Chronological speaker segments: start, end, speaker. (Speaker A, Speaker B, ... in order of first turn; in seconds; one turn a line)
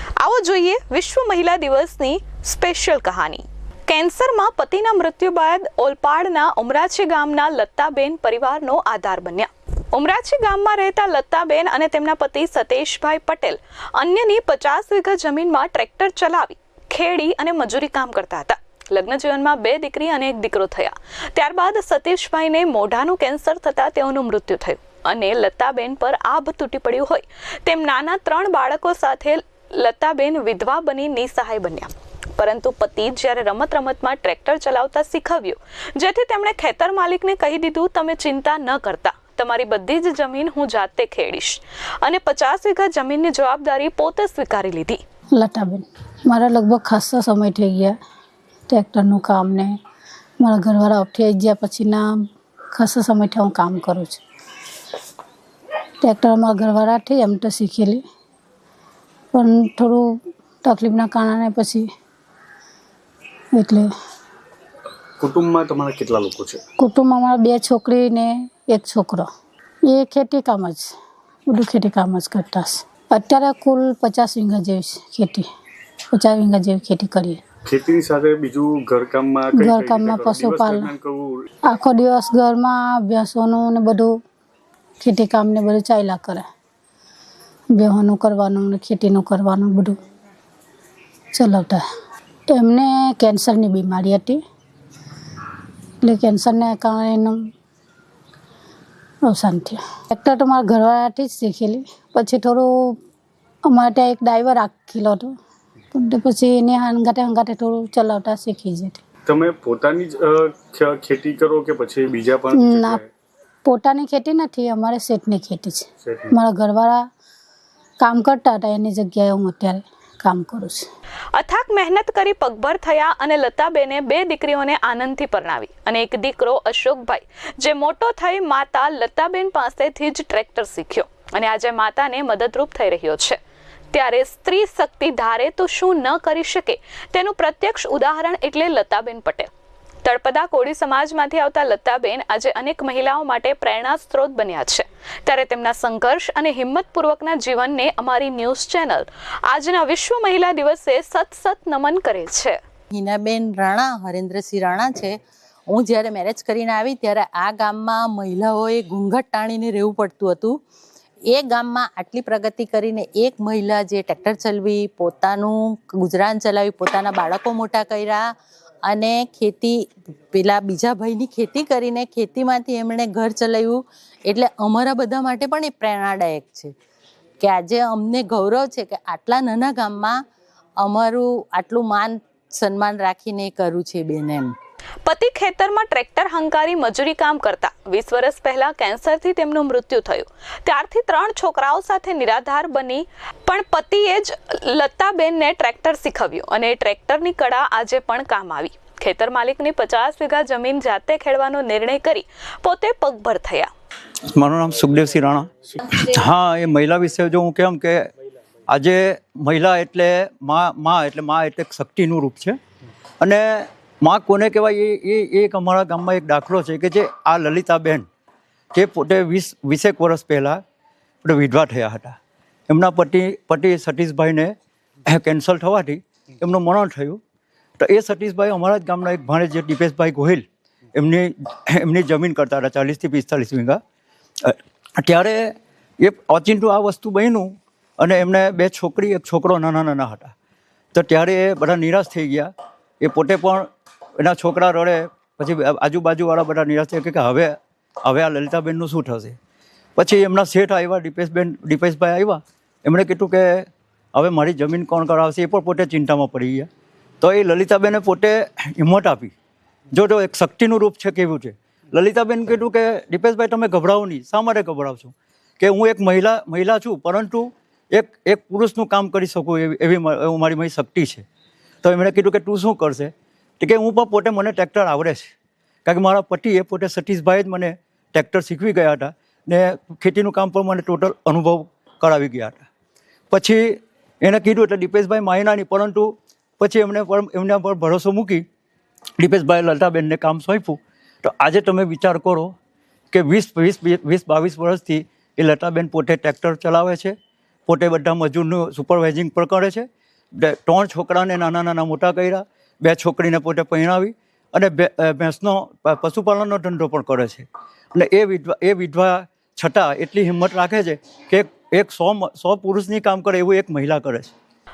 Speaker A: 0.2-45.0
Speaker B: 45.4-48.0
Speaker B: 48.7-49.7
Speaker B: 50.4-52.0
Speaker B: 52.7-54.2
Speaker B: 56.0-58.0
Speaker B: 59.3-60.1
Speaker B: 60.6-61.9
Speaker B: 63.5-63.9
Speaker C: 65.2-66.6
Speaker B: 66.8-69.3
Speaker B: 69.9-70.9
Speaker B: 71.5-75.5
Speaker B: 76.1-77.4
Speaker C: 77.7-81.4
Speaker B: 79.5-80.9
Speaker B: 81.7-84.2
Speaker B: 85.0-86.5
Speaker B: 87.7-90.0
Speaker B: 91.3-91.8
Speaker B: 92.5-94.4
Speaker B: 96.0-97.4
Speaker B: 99.2-103.0
Speaker B: 103.7-105.3
Speaker B: 105.9-109.0
Speaker C: 109.3-113.1
Speaker B: 112.5-113.0
Speaker B: 113.7-117.0
Speaker C: 116.0-116.3
Speaker B: 118.0-120.9
Speaker A: 121.3-133.4
Speaker A: 133.9-139.5
Speaker A: 140.0-152.6
Speaker D: 152.9-155.2
Speaker D: 155.7-160.6
Speaker D: 161.3-168.3
Speaker D: 168.8-169.8
Speaker D: 170.3-176.7
Speaker D: 177.4-180.2
Speaker D: 180.8-184.5
Speaker A: 185.1-203.7
Speaker E: 204.3-208.1
Speaker E: 208.7-212.6
Speaker E: 213.2-218.1
Speaker E: 218.7-220.6
Speaker E: 221.2-222.2
Speaker E: 222.7-224.5
Speaker E: 225.1-227.2
Speaker E: 227.8-233.8
Speaker E: 234.4-240.3
Speaker E: 240.9-242.5
Speaker E: 243.0-243.7
Speaker E: 244.2-249.4
Speaker E: 250.0-256.7
Speaker E: 257.2-259.3
Speaker E: 259.9-271.3
Speaker E: 271.8-275.3
Speaker E: 275.9-282.6
Speaker E: 283.3-288.4
Speaker E: 289.2-292.5
Speaker E: 293.1-297.1
Speaker E: 297.7-314.3